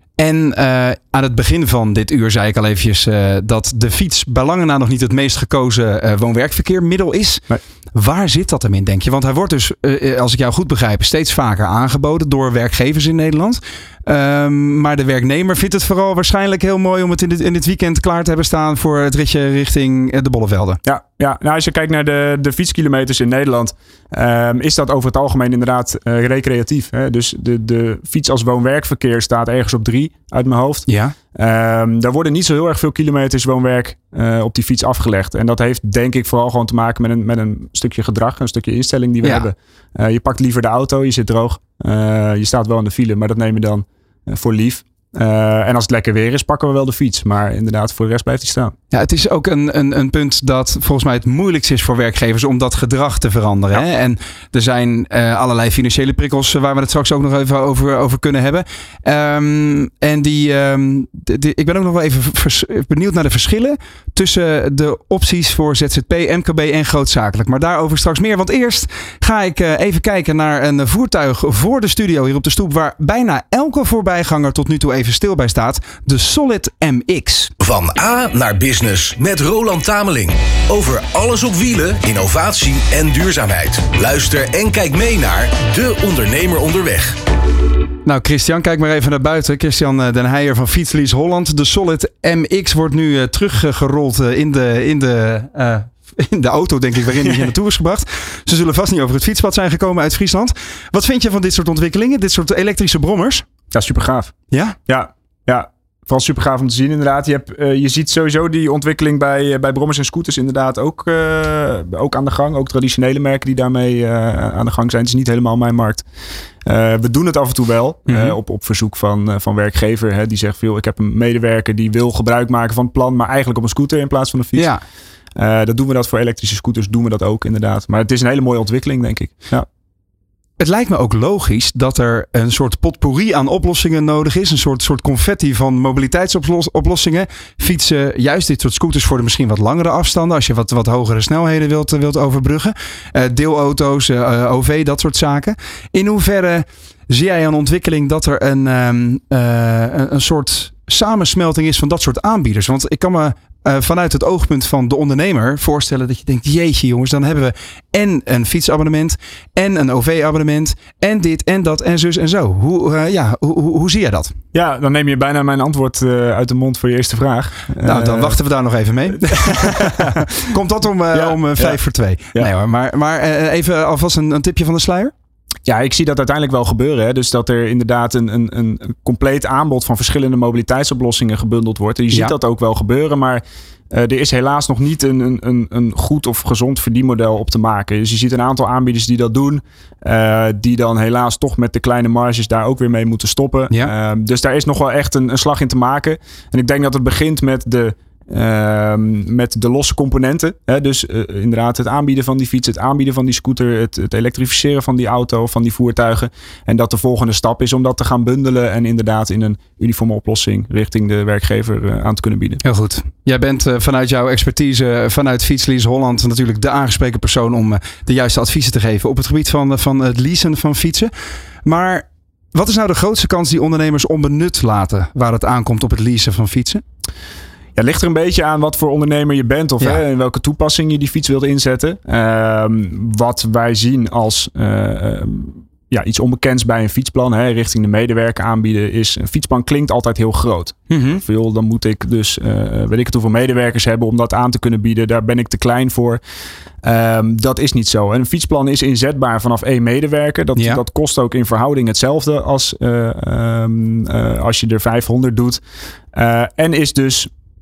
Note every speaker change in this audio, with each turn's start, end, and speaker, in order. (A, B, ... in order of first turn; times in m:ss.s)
0:00.2-0:20.8 A
0:20.8-0:48.7 B
0:30.9-0:31.1 A
0:48.9-1:17.5 A
1:17.6-1:27.2 C
1:28.0-1:43.5 A
1:37.2-1:37.5 B
1:43.7-1:56.1 B
1:44.5-1:44.8 A
1:56.6-2:04.7 B
1:58.1-1:58.4 A
2:04.6-2:04.8 A
2:05.4-2:09.7 B
2:10.6-2:44.4 A
2:44.5-2:48.4 B
2:47.8-2:55.1 A
2:49.2-2:50.4 B
2:51.1-2:51.8 B
2:55.6-3:32.6 B
3:32.6-3:41.1 A
3:41.6-3:46.8 A
3:47.8-4:06.2 B
4:00.9-4:01.2 A
4:06.8-4:15.6 B
4:16.1-4:17.3 B